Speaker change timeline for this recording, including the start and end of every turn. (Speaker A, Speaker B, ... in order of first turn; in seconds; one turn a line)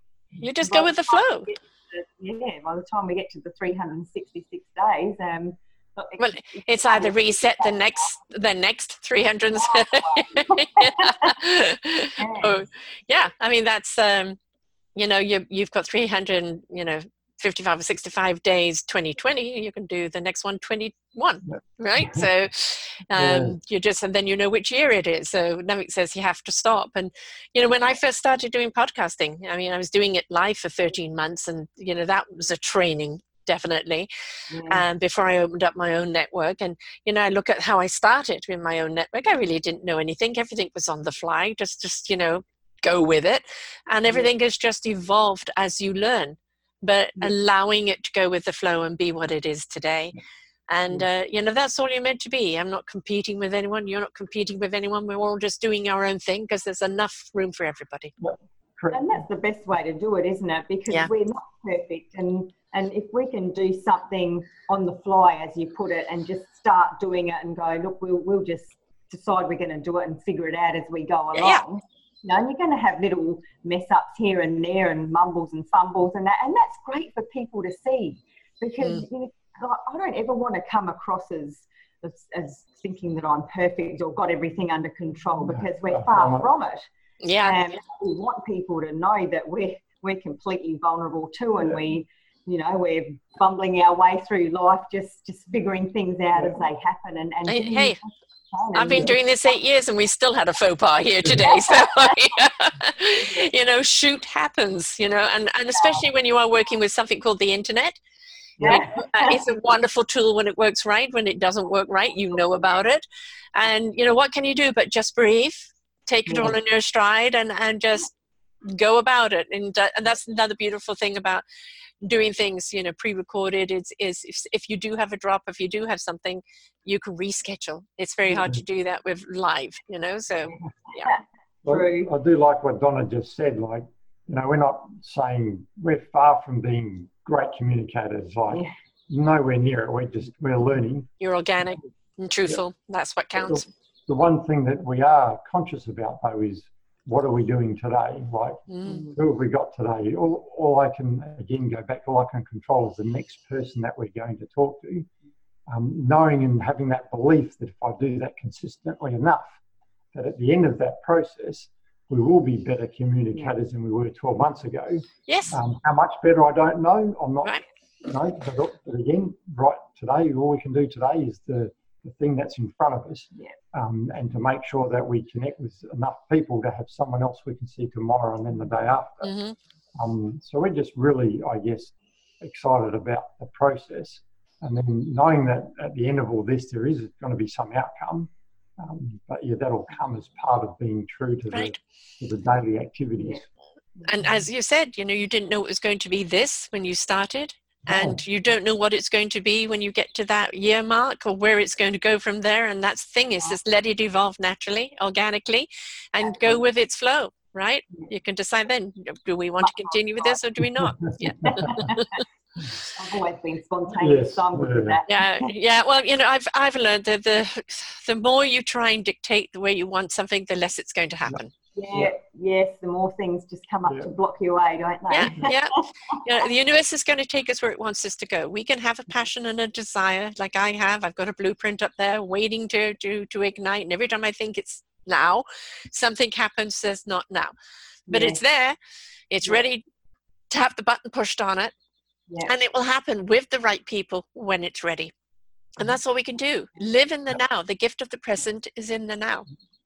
Speaker A: 0.4-1.5
Speaker B: 0.6-8.1
Speaker A: 6.2-14.4
Speaker B: 9.6-11.3
Speaker B: 12.2-12.6
Speaker A: 14.9-34.1
Speaker C: 21.5-22.3
Speaker C: 23.1-23.6
Speaker B: 34.5-34.9
Speaker A: 34.7-50.1
Speaker A: 50.7-58.1
Speaker C: 58.2-59.2
Speaker B: 58.9-86.8
Speaker A: 71.3-71.6
Speaker C: 85.5-86.5
Speaker A: 87.2-87.6
Speaker B: 87.4-99.1
Speaker A: 97.5-98.0
Speaker A: 98.7-108.0
Speaker B: 101.5-102.2
Speaker B: 103.2-103.5
Speaker B: 105.8-106.0
Speaker B: 108.6-109.4
Speaker A: 108.6-113.0
Speaker A: 113.5-118.1
Speaker A: 118.7-121.4
Speaker A: 122.0-131.1
Speaker C: 128.3-128.6
Speaker B: 130.9-132.1
Speaker C: 131.6-141.1
Speaker A: 141.2-143.7
Speaker C: 143.4-155.1
Speaker A: 148.7-149.1
Speaker B: 148.9-149.1
Speaker C: 155.7-159.6
Speaker C: 160.1-179.3
Speaker A: 165.3-165.6
Speaker A: 179.2-179.6
Speaker C: 180.0-193.4
Speaker A: 191.5-191.8
Speaker A: 194.1-212.2
Speaker C: 197.9-198.2
Speaker B: 206.3-206.6
Speaker B: 209.6-210.4
Speaker C: 210.6-211.9
Speaker B: 211.4-212.2
Speaker B: 212.9-215.5
Speaker C: 213.9-215.0
Speaker A: 215.1-221.5
Speaker B: 221.7-226.2
Speaker A: 225.1-237.5
Speaker B: 238.1-238.4
Speaker A: 238.1-238.8
Speaker A: 239.3-239.8
Speaker A: 240.5-241.7
Speaker A: 242.4-245.1
Speaker A: 245.8-249.5